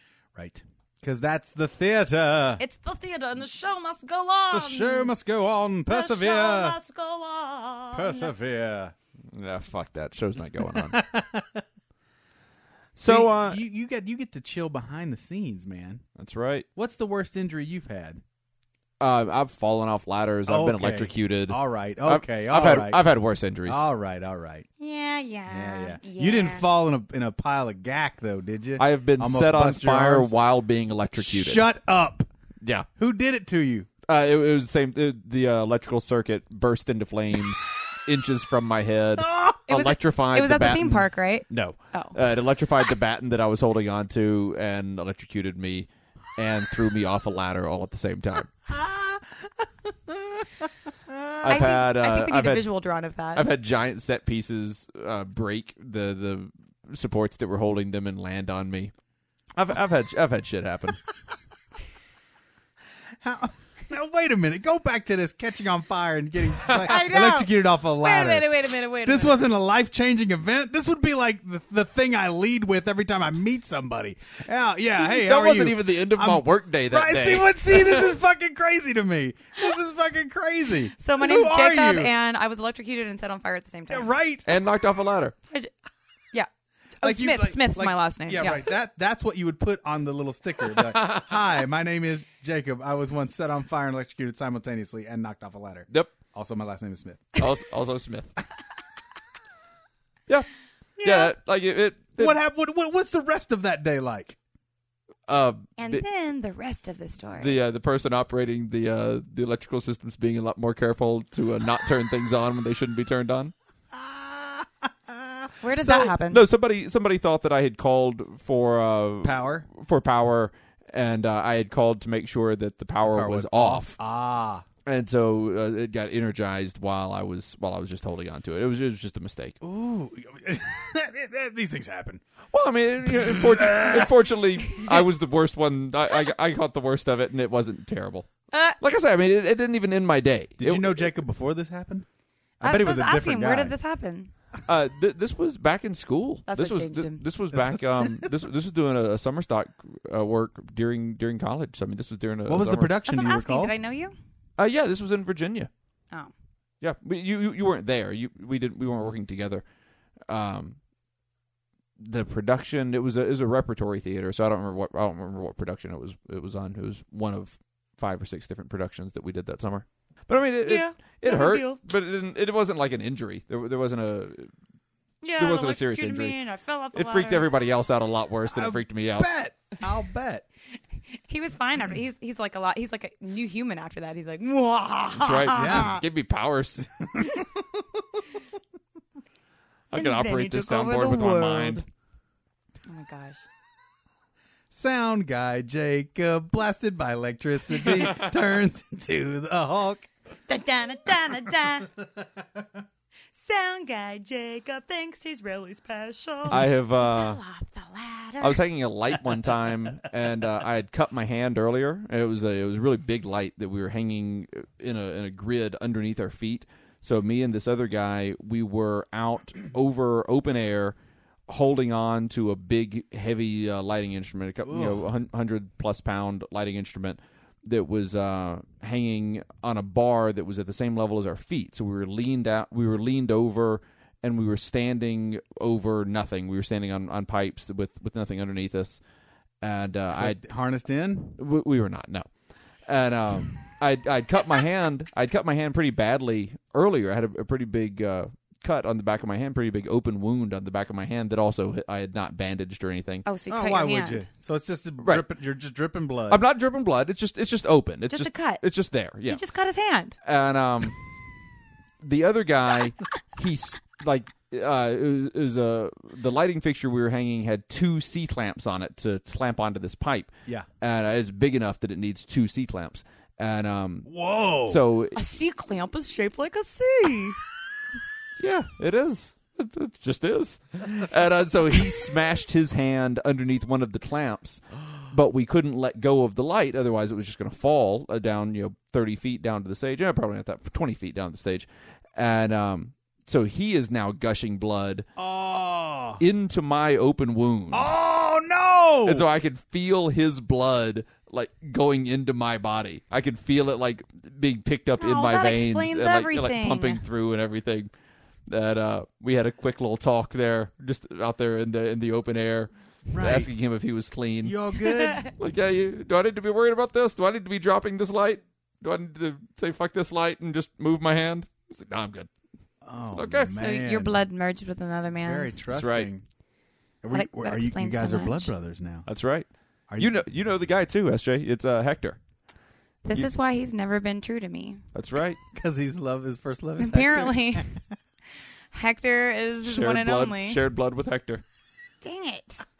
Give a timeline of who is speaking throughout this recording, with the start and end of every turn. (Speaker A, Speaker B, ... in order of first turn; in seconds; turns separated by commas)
Speaker A: 0.3-2.6, Speaker B: 2.6-5.1, Speaker A: 4.5-6.8, Speaker B: 5.9-8.3, Speaker A: 7.9-8.9, Speaker C: 9.3-11.0, Speaker A: 10.7-11.6, Speaker C: 12.9-13.6, Speaker A: 13.0-16.0, Speaker C: 16.2-16.6, Speaker A: 16.8-18.2, Speaker C: 19.0-23.8, Speaker A: 20.5-23.0, Speaker A: 23.6-24.7, Speaker B: 24.8-26.6, Speaker A: 25.5-30.3, Speaker C: 28.8-31.7, Speaker A: 31.2-32.3, Speaker C: 32.6-32.9, Speaker A: 33.0-33.9, Speaker C: 34.0-48.5, Speaker A: 39.2-39.6, Speaker B: 39.7-42.2, Speaker A: 48.7-49.2, Speaker A: 50.1-50.4, Speaker A: 51.1-51.6, Speaker C: 51.4-52.7, Speaker B: 51.5-53.5, Speaker C: 53.3-58.9, Speaker C: 59.5-61.0, Speaker A: 63.2-68.5, Speaker B: 66.8-69.4, Speaker A: 69.0-82.1, Speaker C: 75.0-78.2, Speaker B: 81.0-84.1, Speaker A: 83.9-84.5, Speaker C: 84.5-85.3, Speaker B: 87.0-88.7, Speaker A: 87.0-97.5, Speaker C: 90.9-91.2, Speaker C: 97.4-98.3, Speaker B: 101.0-101.3, Speaker C: 101.0-102.4, Speaker A: 102.2-104.4, Speaker C: 105.3-106.0, Speaker B: 105.8-107.6, Speaker C: 107.4-113.5, Speaker A: 113.9-116.1, Speaker B: 115.6-116.4, Speaker C: 116.1-124.0, Speaker A: 119.2-119.7, Speaker A: 123.0-124.7, Speaker C: 124.8-129.6, Speaker A: 129.6-132.2, Speaker C: 132.5-138.3, Speaker A: 133.1-134.2, Speaker B: 138.5-138.8, Speaker C: 138.8-141.1, Speaker A: 140.6-142.1, Speaker A: 142.6-143.7, Speaker B: 142.6-144.3, Speaker C: 144.7-152.9, Speaker B: 146.5-147.2, Speaker A: 147.5-148.3, Speaker A: 152.5-153.7, Speaker B: 153.1-154.1, Speaker C: 154.6-155.7, Speaker C: 156.8-159.6, Speaker C: 160.3-160.8, Speaker C: 162.0-174.5, Speaker B: 170.6-171.8, Speaker B: 175.2-177.5, Speaker C: 175.4-176.4, Speaker C: 176.9-179.3, Speaker A: 178.5-180.4, Speaker B: 181.3-186.0, Speaker C: 185.2-187.1, Speaker A: 185.5-186.0, Speaker A: 187.0-188.0, Speaker C: 189.9-191.8, Speaker B: 189.9-191.8, Speaker B: 192.9-193.4, Speaker A: 194.7-200.1, Speaker B: 200.5-201.9, Speaker B: 203.4-208.6, Speaker C: 206.5-207.4, Speaker C: 208.4-220.9, Speaker C: 221.5-239.0, Speaker A: 224.7-225.0, Speaker C: 239.6-240.4, Speaker A: 240.1-241.4, Speaker C: 241.4-242.3, Speaker C: 242.8-253.2, Speaker B: 253.2-254.3, Speaker A: 253.5-256.4, Speaker C: 256.3-259.4, Speaker B: 258.1-258.6, Speaker B: 259.2-260.1, Speaker C: 260.2-261.0, Speaker C: 262.0-274.1, Speaker A: 274.1-274.8, Speaker C: 274.7-275.1, Speaker B: 275.1-277.4, Speaker C: 278.4-295.0, Speaker A: 295.1-296.2, Speaker C: 296.2-297.9, Speaker A: 297.7-299.3, Speaker C: 299.1-307.9, Speaker B: 305.0-307.0, Speaker C: 308.5-314.6, Speaker A: 313.1-313.5, Speaker A: 314.4-315.3, Speaker B: 314.9-315.3, Speaker C: 315.4-322.3, Speaker A: 322.8-324.2, Speaker C: 323.1-323.5, Speaker B: 323.5-325.6, Speaker A: 325.2-326.2, Speaker C: 325.7-326.1, Speaker A: 327.0-329.1, Speaker B: 327.1-328.5, Speaker C: 329.1-332.2, Speaker A: 329.9-330.2, Speaker B: 333.0-334.8, Speaker C: 334.9-335.4, Speaker A: 335.5-337.8, Speaker B: 336.8-337.7, Speaker B: 338.7-340.6, Speaker C: 339.6-341.4, Speaker B: 342.0-342.6